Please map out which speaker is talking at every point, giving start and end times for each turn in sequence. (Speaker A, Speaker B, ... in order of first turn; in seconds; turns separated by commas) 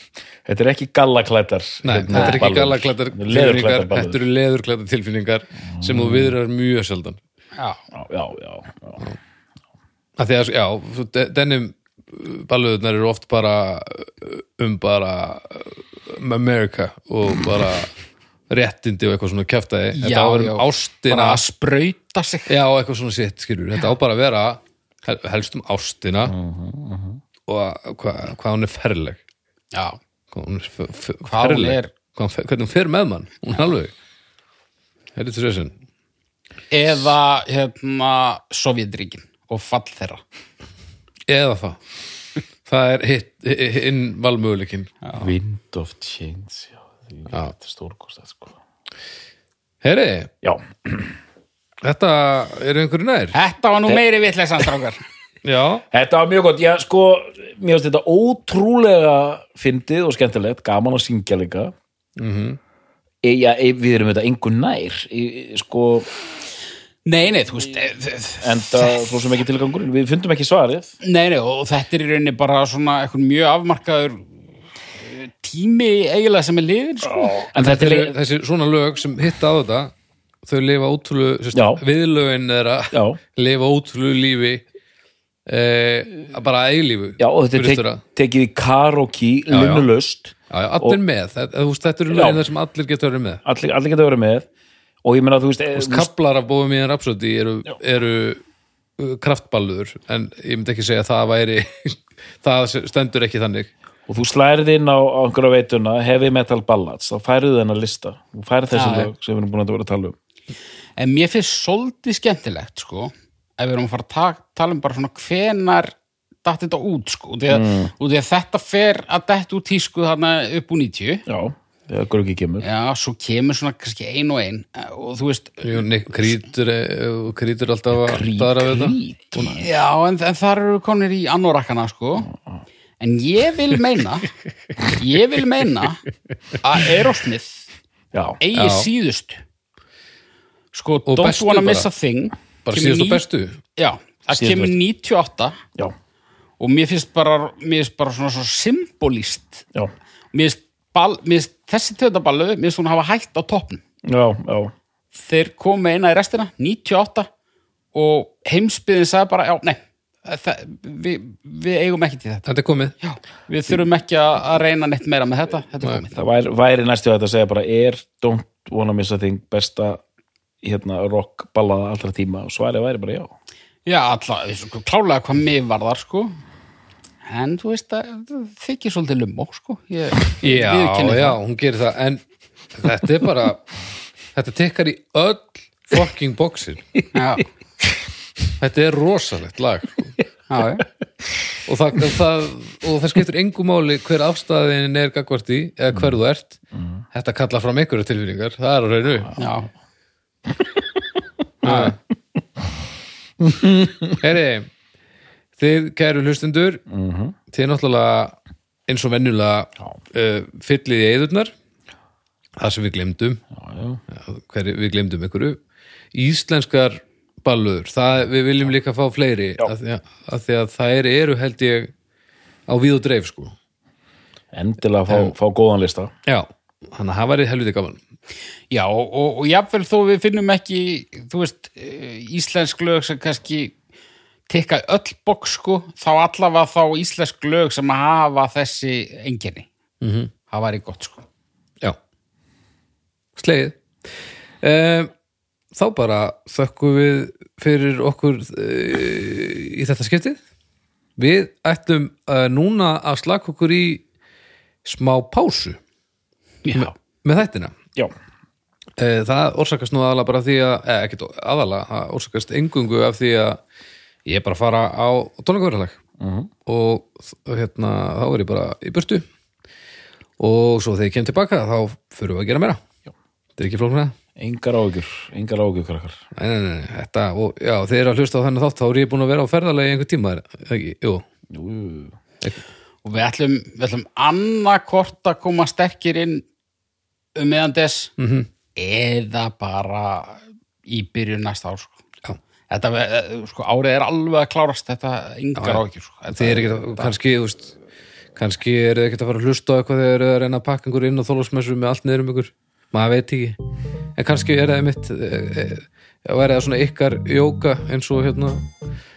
Speaker A: 0.5-4.2, Speaker B: 1.8-7.2, Speaker C: 2.1-2.5, Speaker A: 5.6-6.3, Speaker C: 7.5-7.8, Speaker A: 7.9-9.1, Speaker B: 10.2-17.9, Speaker B: 18.5-21.4, Speaker C: 19.9-22.5, Speaker B: 22.5-26.3, Speaker A: 26.2-27.2, Speaker B: 27.5-29.2, Speaker C: 29.7-30.0, Speaker B: 30.3-33.9, Speaker C: 31.3-31.9, Speaker B: 35.1-35.8, Speaker C: 36.7-40.2, Speaker B: 41.3-41.8, Speaker B: 42.6-44.9, Speaker A: 45.1-48.6, Speaker B: 49.8-50.3, Speaker A: 50.4-51.1, Speaker B: 51.8-53.4, Speaker C: 53.3-55.0, Speaker B: 55.4-55.8, Speaker A: 55.9-61.7, Speaker B: 62.1-62.6, Speaker A: 63.2-66.1, Speaker C: 67.0-69.2, Speaker A: 68.4-70.9, Speaker C: 71.0-74.2, Speaker C: 75.0-77.5, Speaker A: 77.0-78.2, Speaker B: 77.6-79.9, Speaker B: 80.4-84.7, Speaker A: 81.5-81.8, Speaker A: 82.9-83.2, Speaker B: 85.5-88.0, Speaker A: 87.2-91.0, Speaker B: 89.5-89.9, Speaker B: 90.5-93.4, Speaker A: 92.1-92.5, Speaker A: 93.4-94.5, Speaker A: 95.0-96.1, Speaker B: 95.7-98.4, Speaker B: 99.0-103.7, Speaker A: 104.1-110.2, Speaker C: 108.7-109.1, Speaker C: 111.0-121.2, Speaker A: 117.5-117.9, Speaker A: 121.3-122.7, Speaker C: 122.6-126.4, Speaker B: 125.6-129.5, Speaker A: 128.0-129.7, Speaker C: 129.5-132.3, Speaker A: 132.3-132.6, Speaker C: 133.0-134.3, Speaker C: 134.9-136.0, Speaker C: 136.6-137.6, Speaker A: 138.1-138.4, Speaker C: 138.4-139.4, Speaker B: 138.5-138.9, Speaker C: 140.7-143.2, Speaker B: 141.1-141.9, Speaker B: 142.7-143.6, Speaker C: 143.8-145.6, Speaker A: 144.3-144.7, Speaker C: 146.6-149.6, Speaker C: 150.3-153.8, Speaker A: 154.1-154.7, Speaker C: 155.2-157.3, Speaker C: 157.9-162.4, Speaker B: 162.4-162.9, Speaker C: 163.0-166.2, Speaker A: 166.1-170.0, Speaker A: 170.6-173.3, Speaker C: 173.8-176.3, Speaker C: 177.2-181.4, Speaker B: 180.4-182.2, Speaker B: 182.7-183.6, Speaker B: 184.3-186.9, Speaker C: 187.1-187.4, Speaker B: 188.6-190.1, Speaker C: 190.5-190.8, Speaker B: 191.6-196.6, Speaker A: 196.7-197.0, Speaker B: 197.1-199.3, Speaker C: 199.3-199.7, Speaker B: 201.6-202.0, Speaker A: 203.6-204.2, Speaker B: 204.1-204.7, Speaker B: 205.6-206.8, Speaker A: 206.9-207.4, Speaker B: 207.5-208.3, Speaker B: 208.9-211.5, Speaker B: 212.6-213.4, Speaker A: 213.5-214.0, Speaker B: 214.1-215.6, Speaker B: 216.1-221.9, Speaker B: 222.7-223.5, Speaker A: 224.5-226.1, Speaker B: 226.2-228.0, Speaker C: 228.7-233.7, Speaker C: 234.5-239.7, Speaker B: 240.0-240.3, Speaker C: 240.5-241.2, Speaker B: 243.3-243.8, Speaker B: 244.6-245.1, Speaker B: 245.7-250.4, Speaker B: 251.2-254.0, Speaker B: 254.8-255.8, Speaker C: 256.6-256.9, Speaker B: 256.7-257.8, Speaker B: 259.0-263.6, Speaker B: 264.2-266.0, Speaker A: 266.2-266.5, Speaker B: 266.6-269.2, Speaker B: 270.4-272.8, Speaker B: 273.6-274.1, Speaker A: 274.4-276.2, Speaker B: 276.3-281.2, Speaker A: 281.5-282.2, Speaker C: 283.0-286.4, Speaker C: 287.4-288.1, Speaker B: 288.2-288.5, Speaker C: 288.8-292.0, Speaker C: 292.7-297.1, Speaker B: 295.6-297.7, Speaker B: 298.4-303.6, Speaker B: 304.1-308.7